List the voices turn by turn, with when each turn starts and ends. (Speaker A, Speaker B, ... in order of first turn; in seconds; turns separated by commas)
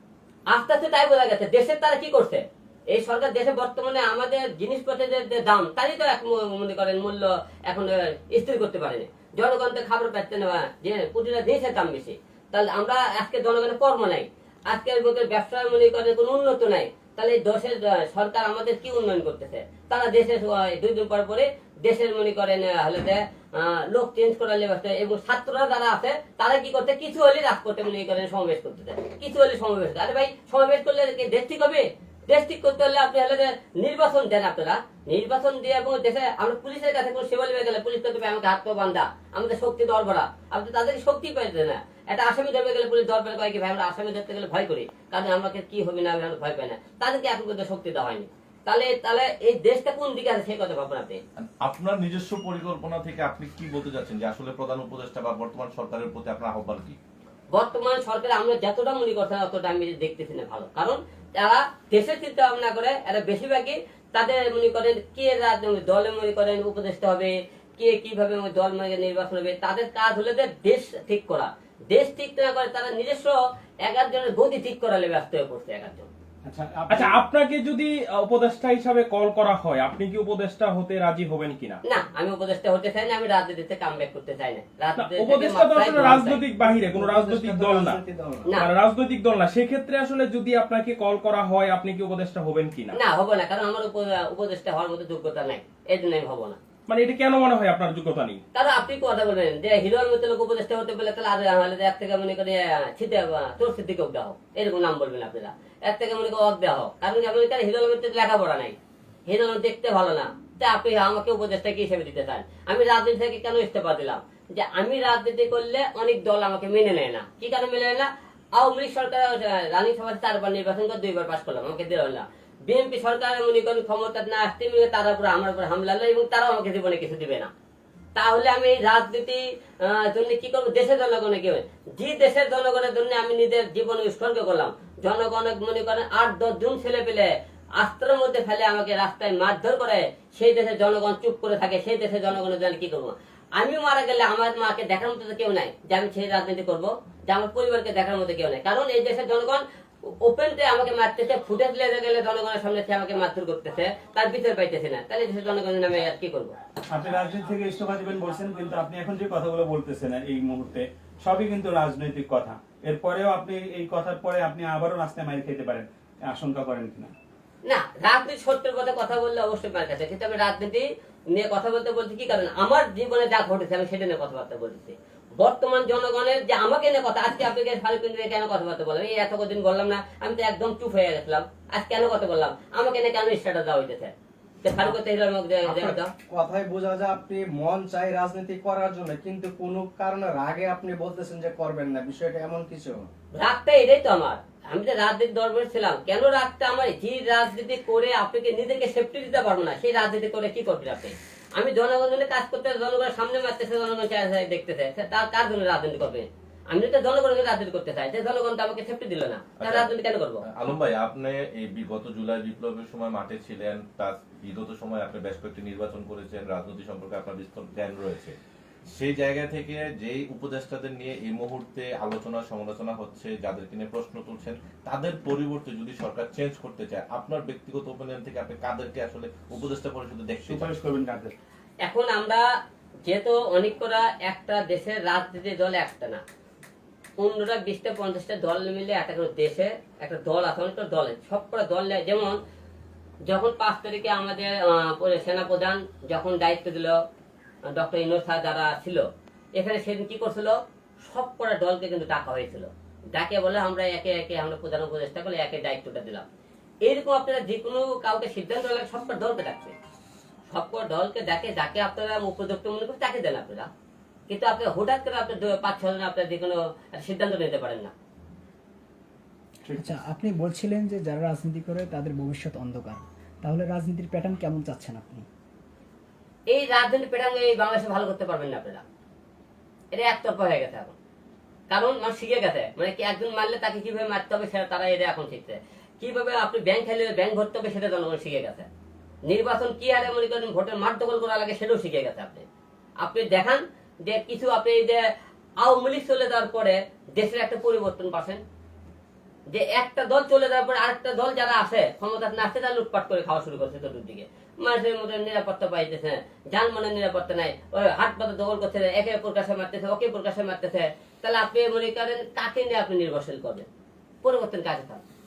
Speaker A: 0.5-51.2, Speaker B: 51.4-57.0, Speaker A: 57.5-76.1, Speaker C: 76.4-77.3, Speaker D: 76.9-81.8, Speaker A: 81.8-86.4, Speaker D: 85.0-88.0, Speaker E: 86.5-88.5, Speaker D: 88.5-93.0, Speaker A: 92.9-96.6, Speaker D: 96.9-98.4, Speaker A: 98.5-108.7, Speaker A: 109.3-127.5, Speaker A: 128.2-156.5, Speaker C: 156.9-167.1, Speaker A: 167.6-186.1, Speaker E: 185.6-193.1, Speaker A: 193.3-210.4, Speaker B: 209.6-209.9, Speaker B: 210.5-218.3, Speaker B: 218.9-230.7, Speaker C: 230.4-231.3, Speaker A: 231.8-232.4, Speaker A: 233.1-236.2, Speaker A: 237.2-242.4, Speaker A: 243.2-247.0, Speaker A: 247.6-256.2, Speaker A: 256.8-259.7, Speaker A: 260.5-263.7, Speaker A: 264.3-267.9, Speaker C: 269.6-270.0, Speaker F: 269.8-275.2, Speaker A: 276.5-278.8, Speaker A: 279.9-280.9, Speaker A: 281.7-288.6, Speaker A: 289.3-292.4, Speaker A: 293.0-295.0, Speaker A: 295.6-298.4, Speaker A: 299.5-313.7, Speaker A: 314.2-315.0